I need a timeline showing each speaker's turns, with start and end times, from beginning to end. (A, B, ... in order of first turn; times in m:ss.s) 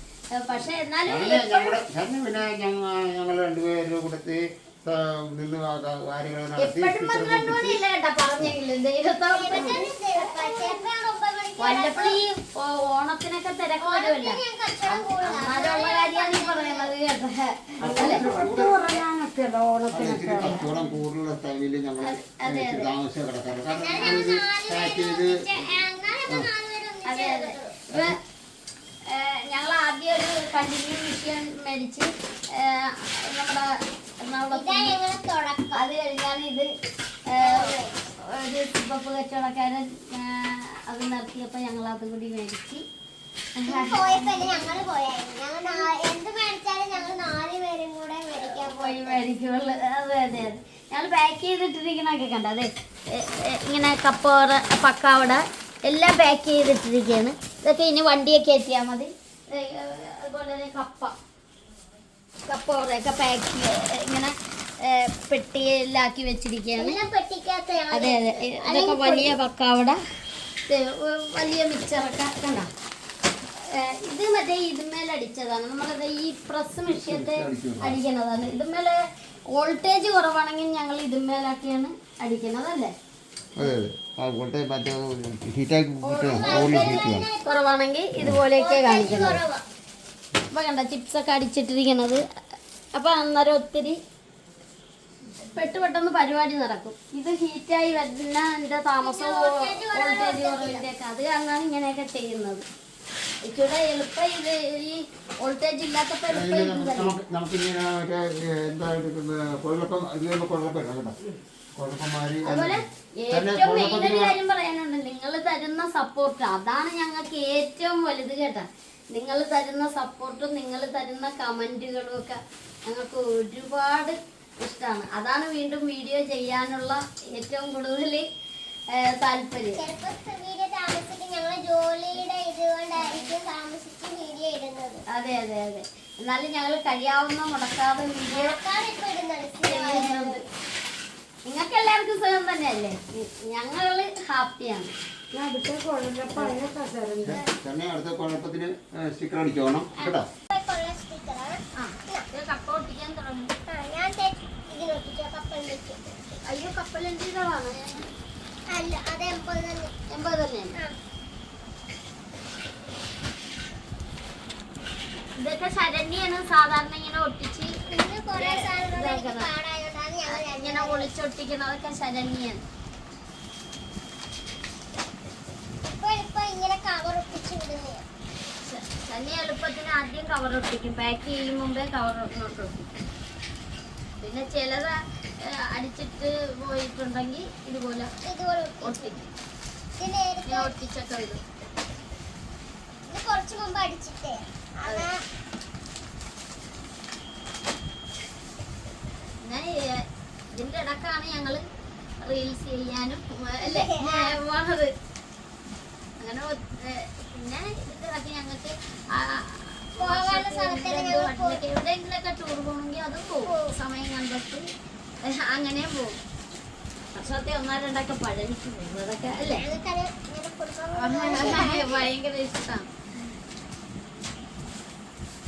0:00.3-0:01.8 A
0:01.0-0:07.8 B
0:06.6-0:10.8 A
0:09.3-0:12.2 C
0:09.5-0:09.9 D
0:11.6-0:18.2 A
0:13.8-0:16.9 C
0:17.8-0:19.0 B
0:17.8-0:20.7 D
0:19.9-0:25.6 B
0:22.0-0:22.9 A
0:23.7-0:27.6 C
0:23.9-0:24.3 A
0:27.0-0:28.2 A
0:27.9-0:28.2 B
0:29.1-0:35.0 A
0:34.5-0:35.8 C
0:35.7-0:36.7 A
0:37.3-0:42.8 A
0:37.4-0:38.0 C
0:43.6-0:44.8 A
0:43.6-0:49.2 C
0:48.4-1:01.1 A
1:02.5-1:07.0 A
1:06.7-1:09.3 C
1:07.9-1:10.0 A
1:10.7-1:12.7 A
1:13.6-1:19.0 A
1:16.9-1:18.0 B
1:19.6-1:22.9 A
1:23.6-1:27.3 B
1:26.0-1:29.4 A
1:26.2-1:27.6 C
1:28.5-1:29.6 C
1:29.0-1:29.4 B
1:30.5-1:32.2 A
1:32.9-1:34.0 A
1:35.5-1:42.6 A
1:39.0-1:40.9 C
1:43.4-1:47.2 A
1:46.3-1:51.1 B
1:51.8-1:54.4 B
1:52.4-2:08.2 A
2:09.0-2:09.9 A
2:09.7-2:15.0 C
2:12.9-2:13.3 A
2:15.1-2:18.6 A
2:18.3-2:20.4 C
2:19.6-2:20.4 A
2:21.5-2:24.9 A
2:25.3-2:27.4 D
2:27.2-2:30.3 B
2:30.5-2:32.2 C
2:31.8-2:33.5 A
2:33.7-2:36.2 C
2:36.4-2:38.1 A
2:38.7-2:39.9 C
2:40.1-2:40.7 A
2:45.4-2:47.7 A
2:47.9-2:51.1 C
2:48.3-2:49.5 A
2:50.2-2:52.6 A
2:55.8-2:58.0 C
2:58.6-3:02.9 A
3:04.2-3:08.1 A
3:08.2-3:09.1 C
3:08.8-3:09.3 A
3:10.0-3:10.7 C
3:10.4-3:11.4 A
3:13.1-3:15.2 C
3:14.8-3:15.1 A
3:19.4-3:21.6 A
3:22.2-3:24.9 A
3:23.6-3:24.4 C
3:26.2-3:34.6 A
3:30.0-3:31.6 C
3:33.4-3:33.7 C
3:35.2-3:36.2 A
3:37.1-3:39.7 A
3:39.5-3:42.1 C
3:40.9-3:42.9 A